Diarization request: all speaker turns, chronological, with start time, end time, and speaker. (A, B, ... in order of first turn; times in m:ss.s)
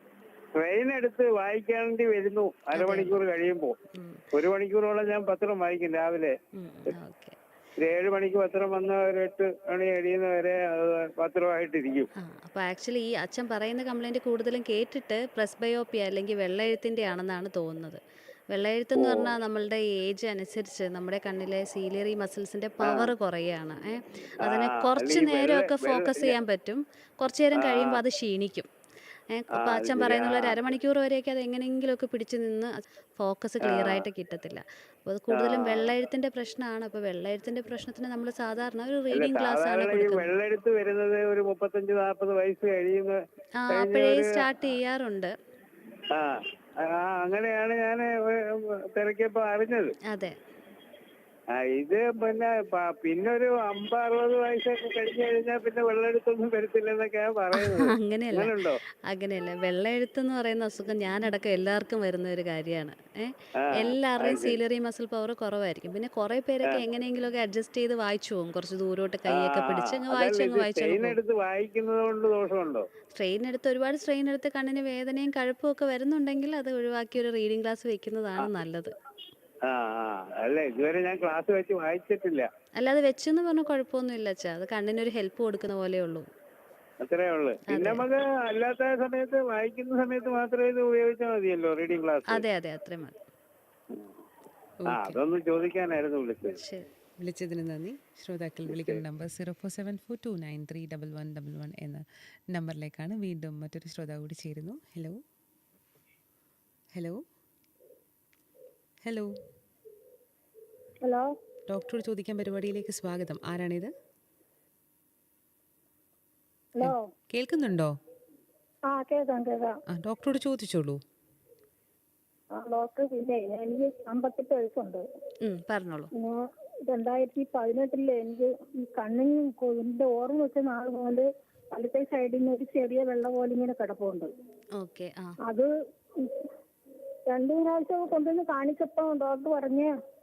0:00.6-0:03.8 A
0:02.7-0:03.2 B
0:04.0-0:04.2 B
0:04.3-0:06.3 A
0:06.6-0:07.4 B
0:07.8-0:12.1 A
0:12.2-0:28.7 B
0:19.0-0:19.3 A
0:22.8-0:23.1 A
0:24.4-0:26.4 A
0:27.6-0:28.0 A
0:29.3-0:40.3 B
0:29.5-0:30.6 A
0:33.6-0:34.1 A
0:35.3-0:35.9 A
0:39.1-0:43.2 A
0:43.6-0:45.4 B
0:43.7-0:44.5 A
0:46.1-0:50.0 A
0:50.1-0:50.4 B
0:51.5-0:58.8 A
0:57.6-0:58.5 B
0:59.1-1:11.2 B
1:03.6-1:04.6 A
1:09.3-1:12.9 A
1:13.2-1:18.9 B
1:19.7-1:22.5 A
1:22.8-1:26.3 B
1:27.0-1:32.4 A
1:27.7-1:28.1 B
1:32.3-1:33.2 B
1:34.8-1:35.2 C
1:34.9-1:36.6 A
1:36.6-1:36.9 B
1:37.2-1:45.2 C
1:47.0-1:47.2 C
1:49.0-1:49.3 C
1:51.7-1:53.9 C
1:56.8-1:57.0 D
1:56.8-1:58.0 C
1:58.9-1:59.8 D
1:59.9-2:01.0 C
2:02.6-2:05.0 D
2:05.4-2:06.1 B
2:06.2-2:14.3 D
2:14.8-2:15.4 B
2:15.4-2:16.5 D
2:17.3-2:19.9 D